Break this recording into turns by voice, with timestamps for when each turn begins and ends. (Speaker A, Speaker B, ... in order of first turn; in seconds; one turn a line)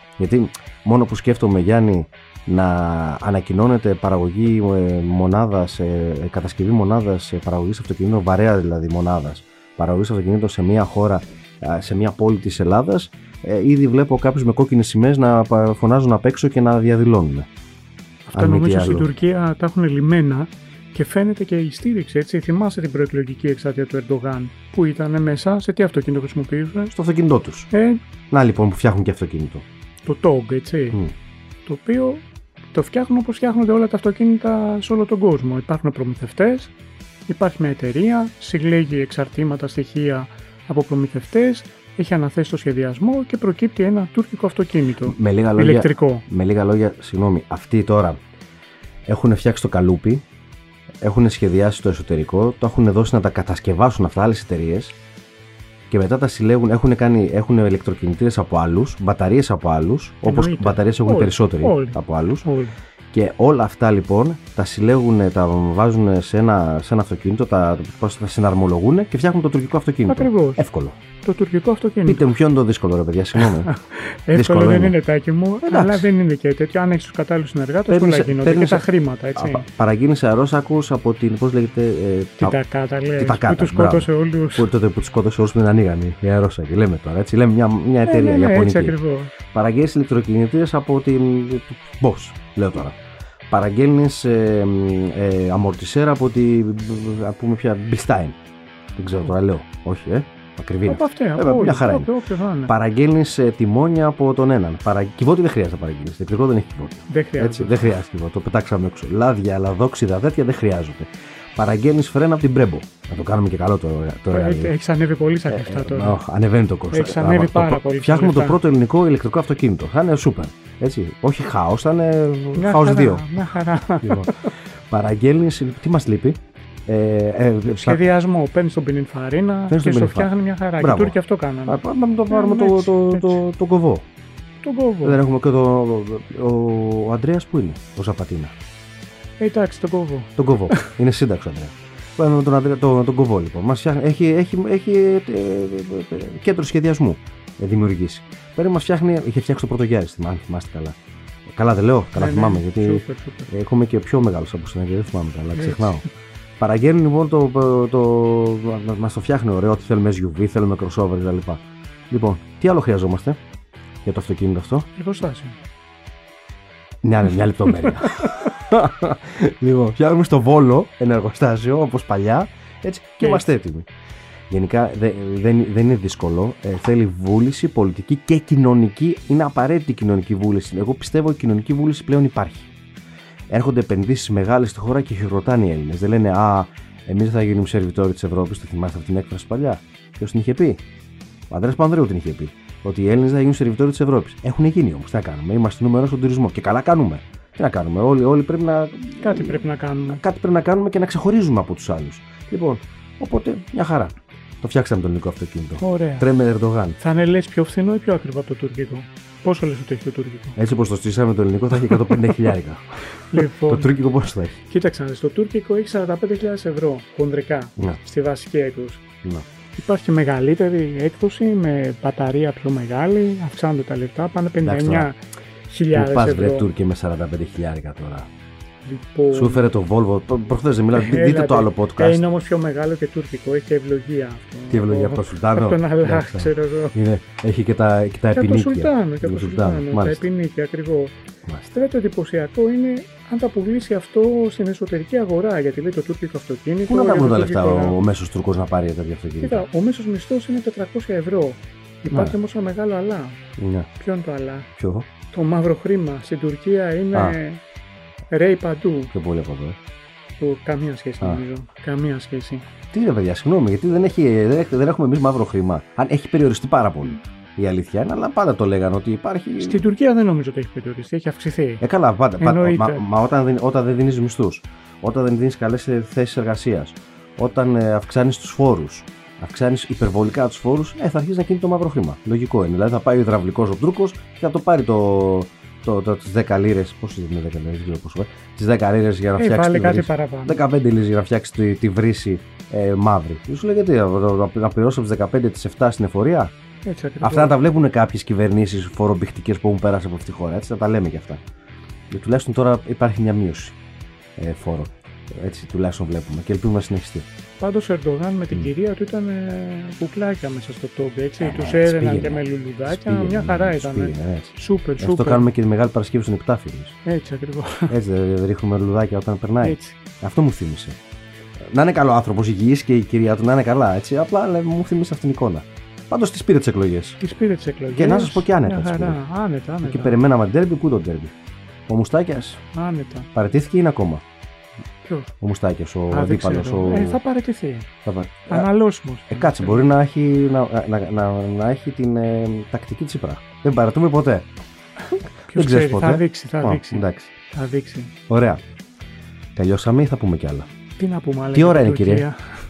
Speaker A: 0.2-17.5
Speaker B: 18.3-26.9
Speaker A: 18.3-19.1
Speaker A: 26.9-27.7
Speaker B: 27.7-28.0
Speaker A: 28.3-29.6
Speaker B: 30.1-31.0
Speaker B: 31.7-36.7
Speaker B: 37.3-46.2
Speaker A: 45.0-48.2
Speaker A: 49.1-50.2
Speaker A: 51.0-55.0
Speaker A: 55.9-62.5
Speaker B: 60.2-62.7
Speaker A: 63.1-71.0
Speaker B: 70.1-70.6
Speaker B: 71.2-72.2
Speaker A: 72.0-73.7
Speaker B: 73.4-79.7
Speaker A: 74.3-75.0
Speaker A: 75.7-76.1
Speaker A: 77.9-78.8
Speaker A: 79.3-82.5
Speaker B: 82.4-84.7
Speaker A: 83.2-89.0
Speaker B: 88.0-89.3
Speaker A: 89.5-93.0
Speaker A: 93.5-98.3
Speaker A: 99.0-102.1
Speaker B: 100.8-102.7
Speaker A: 102.7-114.7
Speaker B: 107.1-107.8
Speaker B: 114.3-116.2
Speaker A: 115.5-123.5
Speaker B: 116.9-118.6
Speaker B: 122.5-124.5
Speaker A: 124.0-128.1
Speaker B: 127.7-133.4
Speaker A: 129.7-134.0
Speaker B: 134.6-135.2
Speaker A: 135.0-138.5
Speaker B: 139.4-140.8
Speaker A: 140.4-156.0
Speaker B: 152.2-153.5
Speaker B: 155.5-156.1
Speaker A: 156.6-163.4
Speaker A: 164.0-164.9
Speaker B: 165.0-165.6
Speaker A: 167.0-173.9
Speaker A: 174.5-182.7
Speaker A: 183.5-190.8
Speaker A: 191.5-207.0
Speaker B: 199.2-200.2
Speaker B: 205.8-206.3
Speaker B: 207.0-210.6
Speaker A: 210.6-214.6
Speaker B: 213.3-213.9
Speaker B: 214.7-219.0
Speaker B: 219.8-226.7
Speaker A: 224.6-225.1
Speaker A: 225.9-228.3
Speaker B: 228.8-229.7
Speaker A: 229.3-232.2
Speaker B: 230.9-237.0
Speaker A: 234.7-240.3
Speaker B: 238.3-241.2
Speaker A: 241.5-241.7
Speaker B: 241.7-248.0
Speaker A: 246.9-249.7
Speaker B: 249.4-253.4
Speaker A: 252.1-252.3
Speaker A: 253.6-253.9
Speaker B: 254.0-254.7
Speaker A: 254.8-255.1
Speaker B: 255.3-257.6
Speaker B: 258.3-259.1
Speaker A: 259.1-259.8
Speaker B: 260.4-262.6
Speaker A: 262.9-269.8
Speaker B: 269.6-271.8
Speaker A: 271.8-296.5
Speaker B: 272.4-273.0
Speaker B: 289.4-290.6
Speaker B: 296.8-297.6
Speaker A: 297.2-301.4
Speaker A: 302.1-303.8
Speaker A: 304.4-307.3
Speaker B: 307.6-315.5
Speaker A: 311.4-317.0
Speaker B: 317.0-317.9
Speaker A: 317.9-321.0
Speaker B: 319.6-319.9
Speaker A: 321.7-327.2
Speaker B: 327.2-330.2
Speaker A: 327.9-329.2
Speaker A: 329.8-331.3
Speaker A: 331.9-332.6
Speaker B: 332.7-333.3
Speaker A: 333.3-334.2
Speaker B: 335.0-335.3
Speaker A: 335.4-337.2
Speaker B: 336.1-337.9
Speaker A: 338.0-338.7
Speaker B: 338.5-339.9
Speaker A: 339.3-344.5
Speaker A: 345.5-347.3
Speaker B: 345.5-348.1
Speaker A: 348.3-348.6
Speaker A: 349.6-350.7
Speaker B: 351.0-352.4
Speaker A: 351.5-352.3